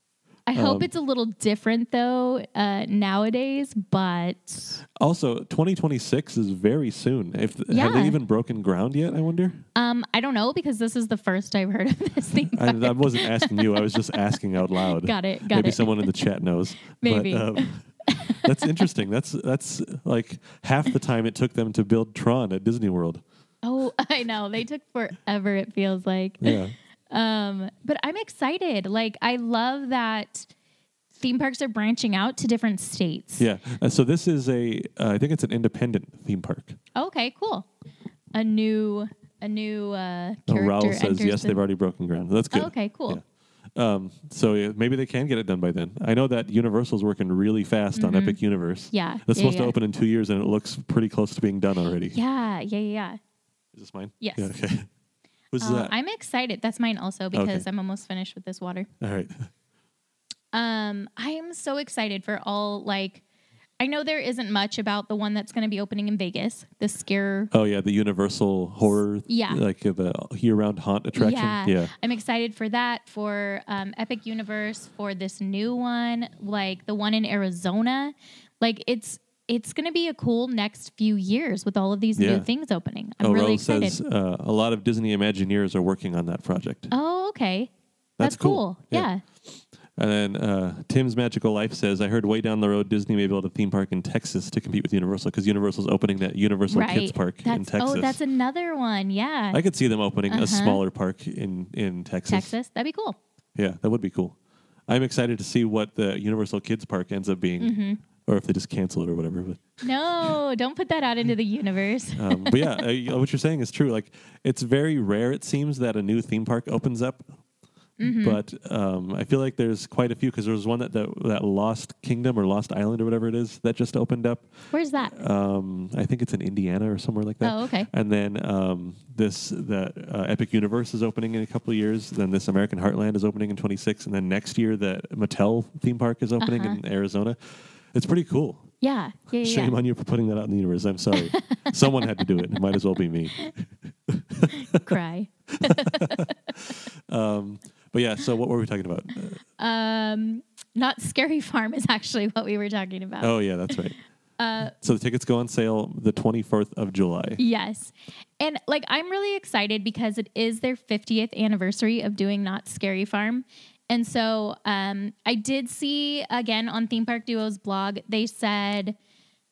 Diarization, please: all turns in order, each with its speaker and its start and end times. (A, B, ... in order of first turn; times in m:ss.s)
0:00.5-0:04.8 A
0:00.5-0:00.9 B
0:05.0-0:09.6 B
0:07.7-0:08.2 A
0:09.7-0:14.0 A
0:12.5-0:23.2 B
0:14.8-0:16.1 A
0:17.0-0:18.5 A
0:23.6-0:26.6 A
0:26.4-0:26.7 B
0:27.1-0:30.5 A
0:31.2-0:33.4 A
0:33.4-0:36.8 B
0:37.0-0:37.7 A
0:38.3-0:41.6 A
0:40.5-0:43.2 B
0:42.5-0:43.2 A
0:43.7-0:52.2 B
0:48.0-0:48.4 A
0:48.9-0:49.7 A
0:52.1-0:53.2 A
0:53.7-0:54.9 B
0:54.2-0:54.5 A
0:55.5-0:55.9 B
0:55.6-0:58.9 A
0:57.3-0:57.6 B
0:59.0-0:59.5 B
1:00.5-1:03.2 A
1:03.8-1:07.5 A
1:07.5-1:11.9 B
1:09.3-1:09.6 A
1:11.2-1:24.0 A
1:22.2-1:22.5 B
1:23.2-1:26.9 B
1:26.9-1:29.2 A
1:28.2-1:29.1 B
1:30.0-1:38.2 B
1:36.7-1:39.6 A
1:39.5-1:42.5 B
1:40.3-1:40.8 A
1:42.3-1:43.2 A
1:43.6-1:44.4 B
1:44.9-1:47.7 B
1:47.6-1:48.0 A
1:48.2-1:49.8 B
1:49.8-1:52.8 A
1:52.2-1:57.2 B
1:58.0-1:58.4 A
1:58.0-2:04.5 B
2:04.7-2:05.2 A
2:05.1-2:18.7 B
2:07.4-2:07.9 A
2:16.4-2:16.8 A
2:18.8-2:19.8 A
2:19.4-2:25.0 B
2:21.1-2:22.0 A
2:24.5-2:26.3 A
2:25.6-2:29.4 B
2:29.6-2:33.8 A
2:33.2-2:34.0 B
2:34.4-2:34.7 A
2:34.7-2:37.4 B
2:37.4-2:49.0 A